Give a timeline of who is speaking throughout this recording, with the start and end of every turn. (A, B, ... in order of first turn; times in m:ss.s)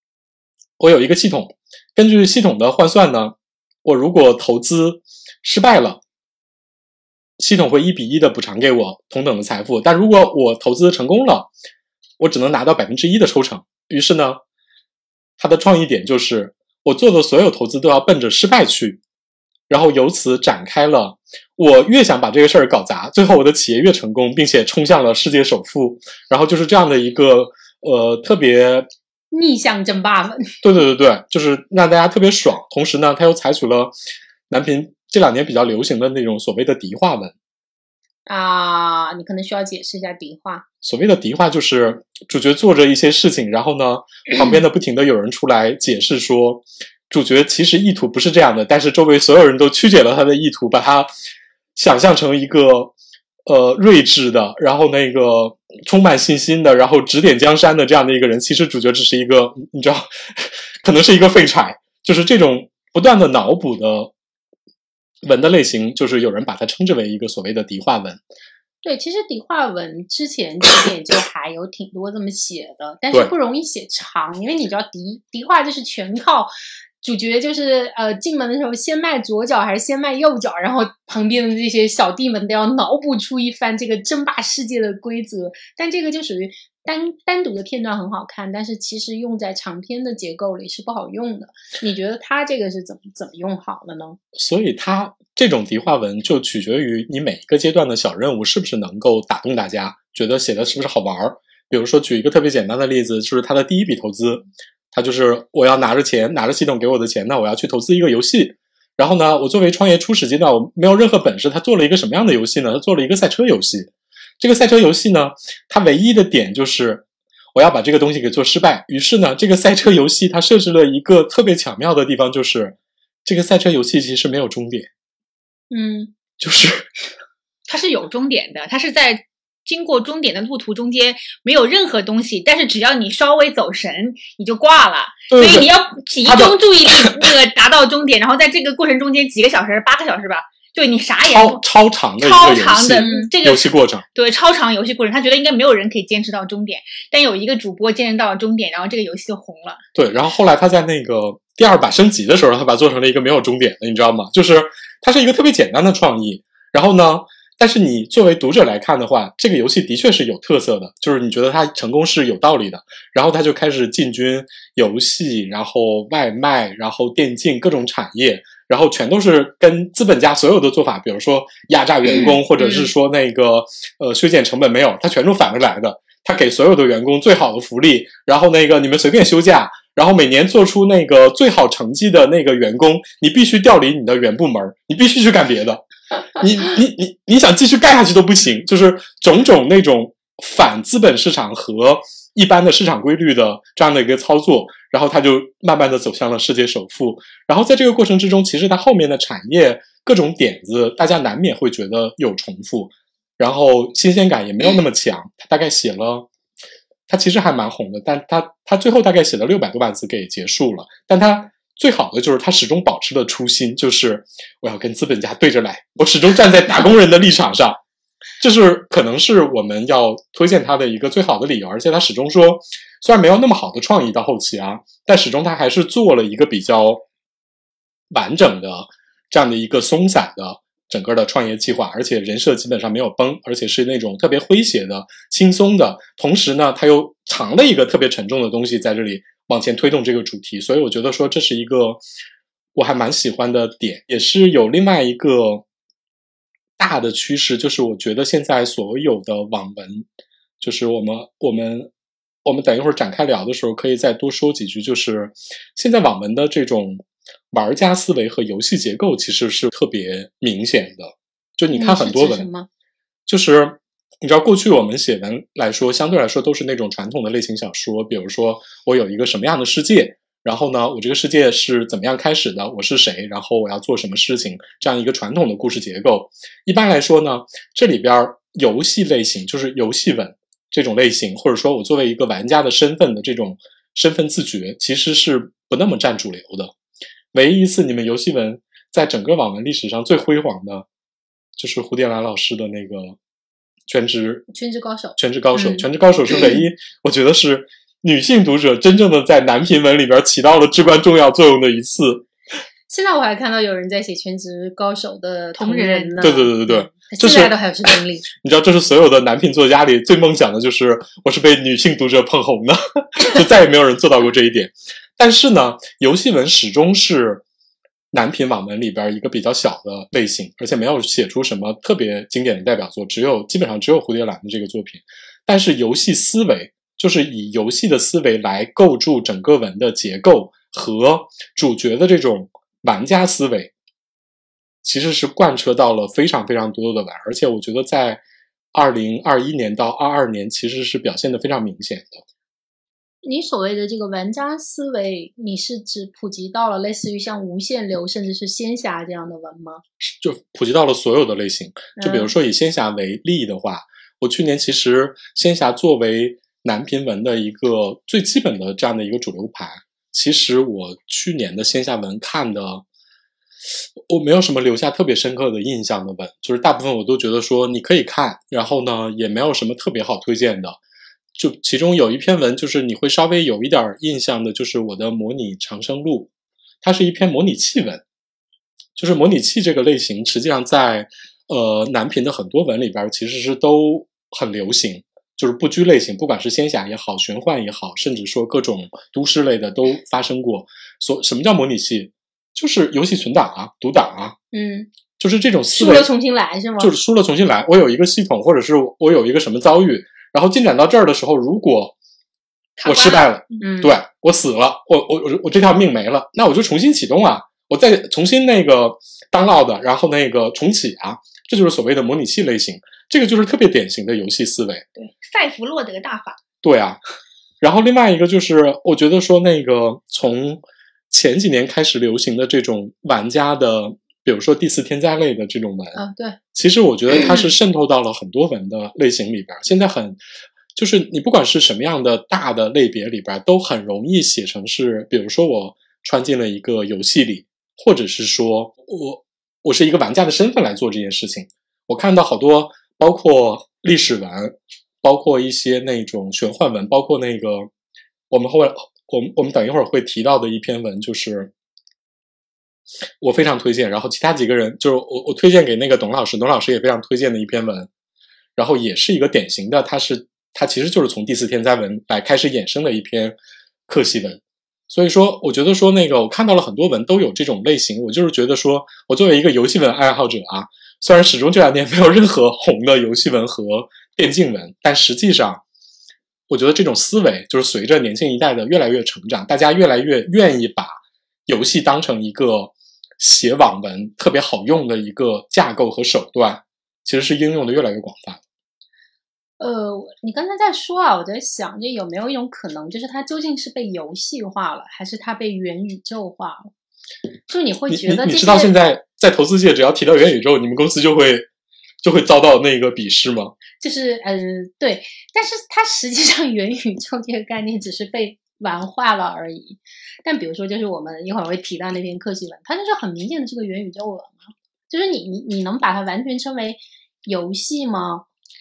0:00.8-0:06.0 A
0:07.4-0:11.5 A
0:12.2-0:14.4 A
0:15.4-0:19.0 A
0:19.7-0:28.9 A
0:29.3-0:30.6 B
0:30.6-0:34.0 A
0:34.5-0:37.4 A
0:38.3-0:40.6 B
0:40.8-0:51.1 A
0:51.8-0:52.9 A
0:53.5-1:04.1 A
1:05.2-1:08.2 A
1:08.8-1:34.2 B
1:34.4-2:04.9 A
2:05.7-2:06.1 B
2:06.4-2:06.9 A
2:07.7-2:21.6 C
2:15.3-2:15.7 A
2:16.2-2:17.3 A
2:21.3-2:24.0 A
2:22.2-2:29.8 C
2:23.0-2:23.3 B
2:30.0-3:05.8 A
2:52.6-2:52.9 B
3:06.4-3:26.3 A
3:27.1-3:37.8 A
3:38.4-3:47.0 A
3:48.1-4:02.0 A
4:02.8-4:05.6 A
4:06.8-4:10.1 A
4:10.6-4:11.9 A
4:12.4-4:22.5 A
4:21.7-4:22.7 B
4:23.3-4:46.7 A
4:47.3-4:50.9 A
4:51.6-4:53.2 A
4:53.9-4:54.5 A
4:54.5-4:55.8 B
4:55.2-5:02.3 A
5:02.9-5:08.3 B
5:05.6-5:06.2 C
5:06.2-5:17.4 A
5:18.1-5:33.7 A
5:34.8-5:38.2 A
5:38.7-5:42.2 A
5:43.2-5:49.8 B
5:50.2-6:02.8 A
5:52.0-5:52.3 B
6:04.0-6:10.8 A
6:11.4-6:16.3 A
6:16.8-6:18.0 A
6:19.0-6:34.4 A
6:34.5-6:34.9 B
6:35.2-6:36.1 A
6:35.7-6:36.9 B
6:36.8-6:42.0 A
6:42.8-6:43.6 C
6:42.8-6:54.9 A
6:43.6-6:43.9 B
6:55.1-6:56.4 C
6:56.6-6:57.0 A
6:57.6-7:06.0 A
7:06.0-7:06.4 B
7:06.5-7:10.2 A
7:10.8-7:27.7 A
7:28.3-7:31.5 A
7:33.2-7:37.9 A
7:38.6-7:43.4 A
7:43.9-7:55.6 A
7:56.5-8:08.4 A
8:09.6-8:16.7 B
8:17.5-8:18.7 B
8:17.9-8:21.5 A
8:22.0-8:23.6 A
8:23.8-8:38.2 B